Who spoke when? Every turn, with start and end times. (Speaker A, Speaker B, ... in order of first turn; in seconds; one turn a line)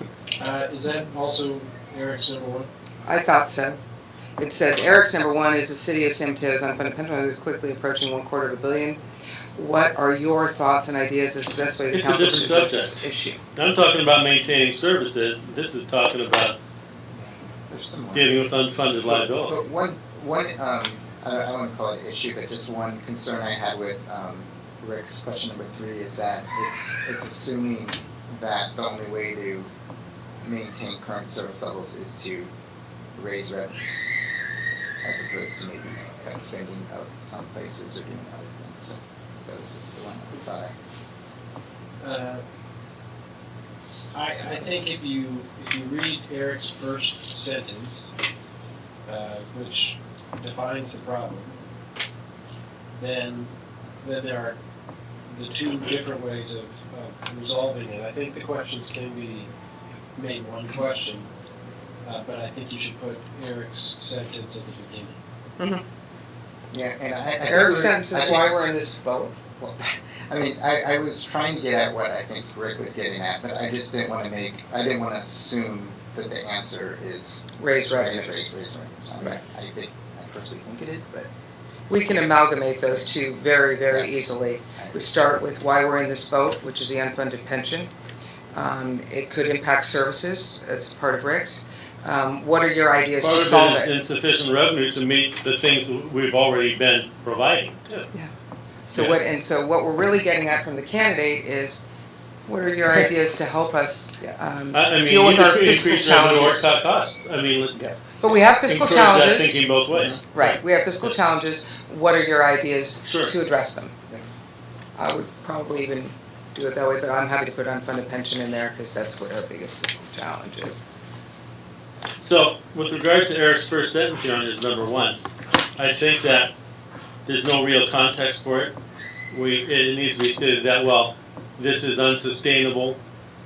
Speaker A: 0.4-2.7
Speaker B: 3.0-3.8
Speaker B: 4.4-9.0
Speaker B: 9.6-13.4
Speaker C: 11.9-13.0
Speaker C: 13.6-16.6
Speaker D: 17.1-18.3
Speaker C: 18.1-19.6
Speaker D: 19.1-29.7
Speaker D: 30.4-32.5
Speaker D: 33.1-34.0
Speaker D: 35.0-40.7
Speaker A: 42.0-42.4
Speaker A: 44.1-48.1
Speaker A: 49.1-51.6
Speaker A: 52.9-54.6
Speaker A: 55.3-59.5
Speaker A: 60.1-61.3
Speaker A: 62.0-65.2
Speaker B: 65.6-65.8
Speaker D: 66.7-68.5
Speaker B: 67.5-69.3
Speaker D: 69.6-81.3
Speaker B: 77.6-78.5
Speaker B: 81.9-87.9
Speaker D: 83.9-84.1
Speaker D: 84.8-85.0
Speaker B: 88.5-93.9
Speaker C: 93.2-98.1
Speaker B: 98.9-101.9
Speaker C: 98.9-99.2
Speaker B: 102.5-106.7
Speaker C: 104.7-107.8
Speaker B: 108.2-109.7
Speaker C: 108.6-111.1
Speaker D: 109.9-110.2
Speaker B: 110.3-113.9
Speaker C: 113.1-113.3
Speaker B: 115.0-120.8
Speaker C: 122.2-125.2
Speaker C: 125.8-126.5
Speaker C: 127.3-128.8
Speaker C: 129.3-133.0